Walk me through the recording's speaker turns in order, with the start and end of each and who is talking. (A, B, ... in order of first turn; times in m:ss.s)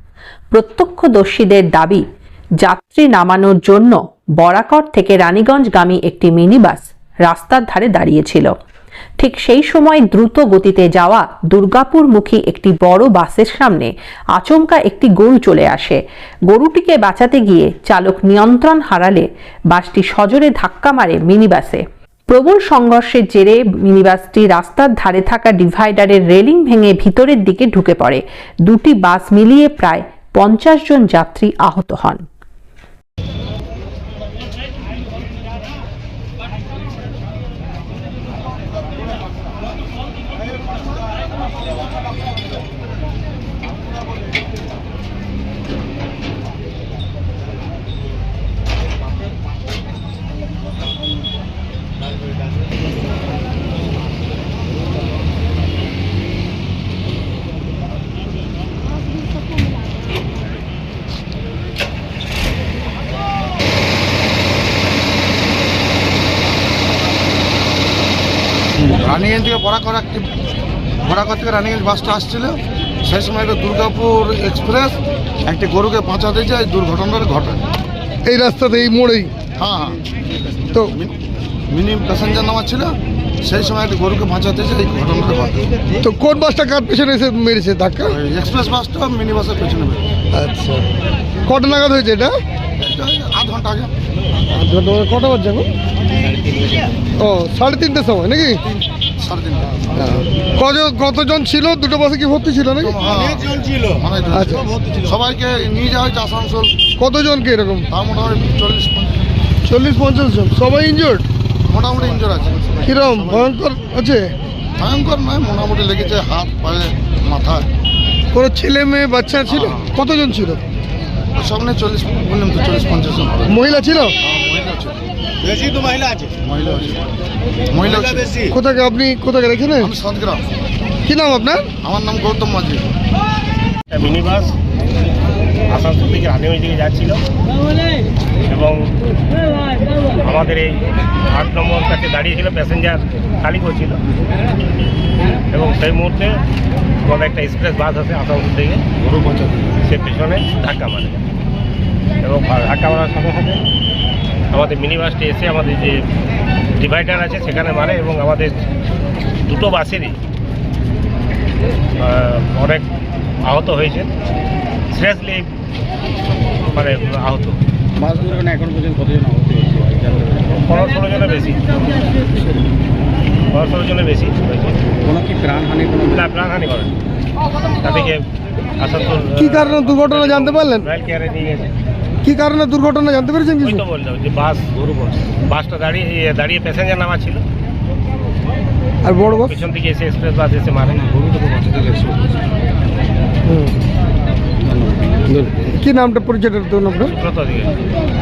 0:00.5-0:02.0 A
0:02.6-0:08.6 A
0:09.2-0:32.2 A
1:08.8-1:10.3 B
1:11.0-1:17.6 B
1:18.2-1:19.3 C
1:19.6-1:20.0 B
1:21.7-1:25.6 B
1:26.0-1:28.2 C
1:28.1-1:30.1 B
1:30.3-1:30.9 C
1:31.4-1:32.4 C
1:32.8-1:33.9 B
1:34.5-1:35.7 C
1:37.2-1:38.6 C
1:39.2-1:39.8 B
1:40.0-1:43.0 C
1:42.8-1:46.8 B
1:44.3-1:44.7 C
1:47.0-1:47.9 C
1:47.9-1:49.3 B
1:49.6-1:51.3 C
1:51.7-1:53.0 B
1:52.8-1:54.4 C
1:54.8-1:57.7 B
1:58.3-2:00.6 C
2:01.4-2:03.6 B
2:03.5-2:04.2 C
2:04.2-2:05.0 B
2:06.4-2:07.1 B
2:07.7-2:08.5 B
2:08.5-2:09.9 C
2:09.8-2:10.5 B
2:11.0-2:11.7 C
2:11.8-2:12.9 B
2:13.9-2:14.6 D
2:15.7-2:17.2 D
2:18.5-2:18.9 D
2:19.9-2:24.0 D
2:25.5-2:26.4 D
2:27.0-2:28.8 D
2:29.8-2:31.2 D
2:32.2-2:33.6 D
2:34.5-2:36.1 D
2:36.8-2:38.6 D
2:39.4-2:40.2 D
2:42.0-2:42.9 D
2:43.4-2:44.1 D
2:44.9-2:45.5 D
2:46.7-2:47.6 D
2:48.0-2:50.6 E
2:50.6-2:51.7 D
2:53.5-2:54.8 D
2:55.0-2:56.2 E
2:56.0-2:57.0 D
2:57.8-3:01.7 D
2:59.4-3:00.9 C
3:02.2-3:03.8 C
3:03.6-3:07.4 D
3:09.0-3:09.5 C
3:09.2-3:11.3 D
3:11.3-3:12.2 E
3:13.5-3:13.8 C
3:15.4-3:17.1 C
3:17.1-3:17.9 D